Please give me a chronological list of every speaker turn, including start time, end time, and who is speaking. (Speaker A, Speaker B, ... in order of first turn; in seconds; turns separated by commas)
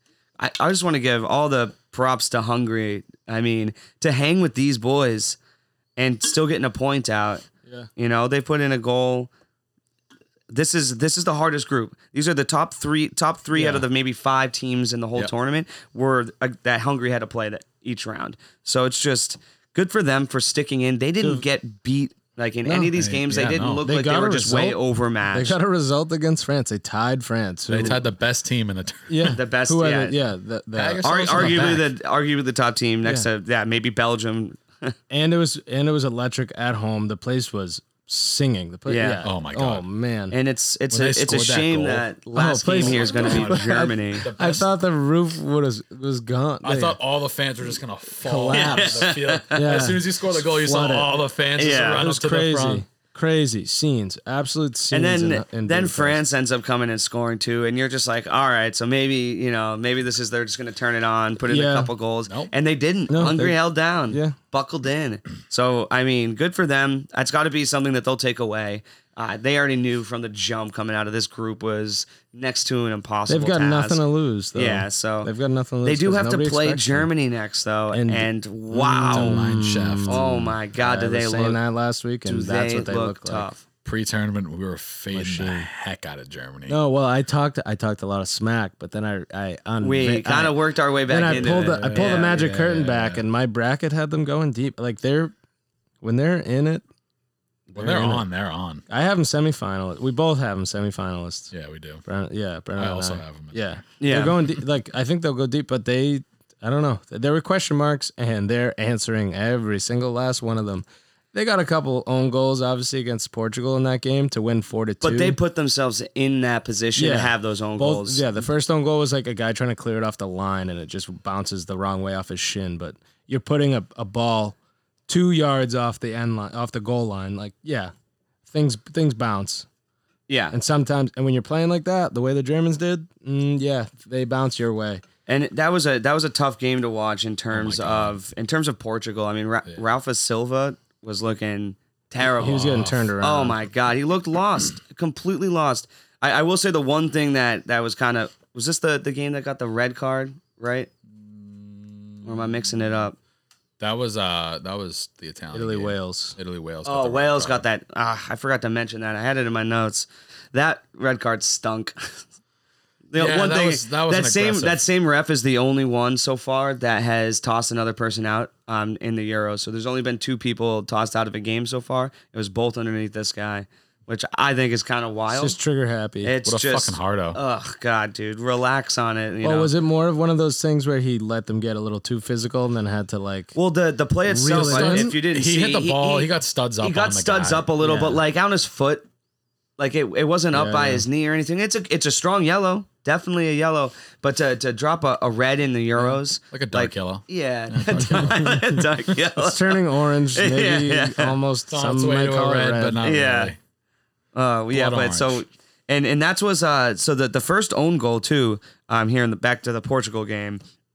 Speaker A: 0.4-5.4, Speaker A: 6.0-7.5, Speaker A: 8.0-9.3, Speaker A: 10.5-25.6, Speaker B: 13.5-13.8, Speaker B: 22.6-22.9, Speaker C: 22.9-23.8, Speaker B: 23.8-24.8, Speaker B: 25.3-28.0, Speaker C: 27.7-29.3, Speaker B: 29.1-31.7, Speaker A: 29.3-30.1, Speaker C: 30.7-31.9, Speaker A: 31.0-34.9, Speaker B: 35.1-40.4, Speaker A: 38.9-39.2, Speaker C: 39.2-39.8, Speaker A: 40.3-44.2, Speaker C: 40.9-42.0, Speaker B: 42.3-47.0, Speaker C: 42.7-44.7, Speaker C: 46.6-52.8, Speaker B: 48.2-51.1, Speaker A: 48.5-49.6, Speaker A: 51.5-52.0, Speaker B: 51.9-56.2, Speaker A: 54.9-74.0, Speaker B: 61.5-61.9, Speaker C: 62.3-62.5, Speaker B: 63.1-63.6, Speaker B: 64.1-64.4, Speaker B: 73.3-77.1, Speaker A: 74.5-75.3, Speaker A: 75.8-79.4, Speaker B: 77.9-83.5, Speaker C: 79.1-80.5, Speaker A: 80.1-81.6, Speaker A: 82.2-83.6, Speaker C: 83.8-86.8, Speaker B: 85.1-85.7, Speaker B: 86.7-95.3, Speaker A: 89.8-92.3, Speaker C: 91.3-93.2, Speaker B: 96.0-96.8, Speaker C: 97.7-98.8, Speaker B: 97.7-98.2, Speaker B: 98.9-101.5, Speaker C: 101.5-102.0, Speaker B: 102.0-115.4, Speaker C: 102.8-103.8, Speaker A: 104.0-104.4, Speaker A: 115.0-118.2, Speaker B: 117.0-124.5, Speaker B: 125.1-127.9, Speaker B: 128.5-129.7, Speaker A: 130.3-130.5, Speaker B: 130.5-135.0, Speaker A: 135.3-150.9, Speaker C: 137.5-138.2, Speaker B: 142.3-143.6, Speaker C: 142.4-143.1, Speaker C: 151.1-153.1, Speaker A: 152.2-153.2, Speaker C: 153.8-157.7, Speaker B: 155.5-156.3, Speaker A: 156.8-162.2, Speaker A: 163.1-175.6, Speaker C: 163.2-164.8, Speaker B: 175.3-176.3, Speaker A: 176.2-179.7, Speaker C: 176.4-177.4, Speaker B: 179.4-183.5, Speaker A: 183.6-189.1, Speaker B: 184.3-185.2, Speaker C: 184.5-188.0, Speaker B: 187.8-188.2, Speaker A: 189.8-199.8, Speaker B: 190.5-191.1, Speaker C: 196.0-198.8, Speaker B: 199.4-203.0, Speaker A: 200.3-201.3, Speaker C: 201.7-203.6, Speaker A: 203.0-203.5, Speaker A: 204.3-210.6, Speaker C: 204.7-205.4